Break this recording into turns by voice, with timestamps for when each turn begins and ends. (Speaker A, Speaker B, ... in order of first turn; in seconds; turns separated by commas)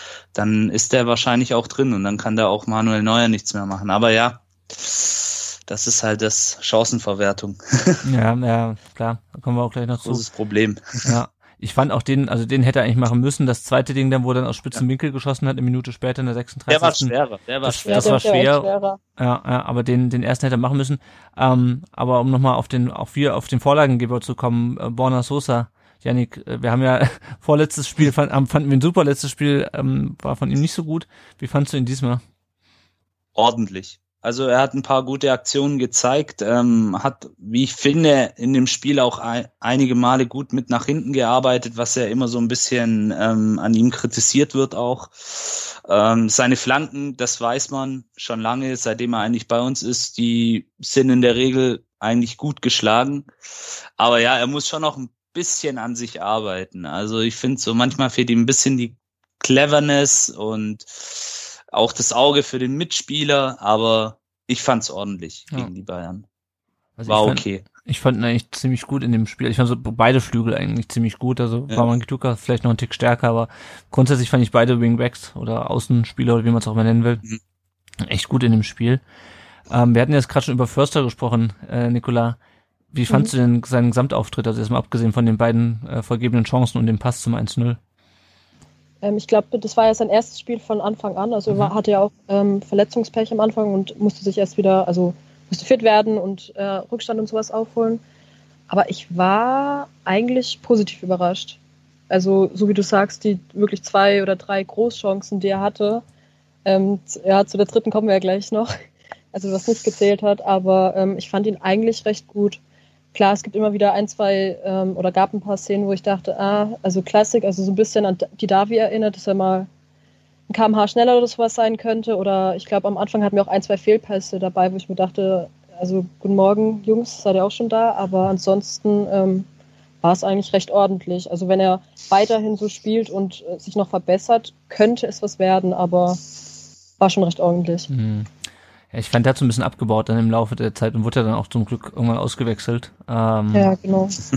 Speaker A: 0.3-8.0, Speaker B: 8.0-10.2, Speaker A: 10.0-11.1, Speaker B: 11.1-32.2, Speaker A: 16.7-18.2, Speaker C: 17.9-19.0, Speaker A: 33.4-53.3, Speaker A: 54.0-66.2, Speaker B: 67.0-77.2, Speaker A: 67.1-67.6, Speaker B: 78.0-79.0, Speaker B: 79.7-82.4, Speaker B: 82.9-87.8, Speaker C: 89.0-98.0, Speaker C: 98.7-101.6, Speaker C: 102.1-106.0, Speaker C: 106.7-108.7, Speaker C: 109.3-112.6, Speaker C: 113.1-119.7, Speaker C: 120.5-129.5, Speaker C: 130.0-136.2, Speaker C: 137.0-137.9, Speaker B: 137.9-138.3, Speaker B: 138.9-143.7, Speaker C: 143.5-144.2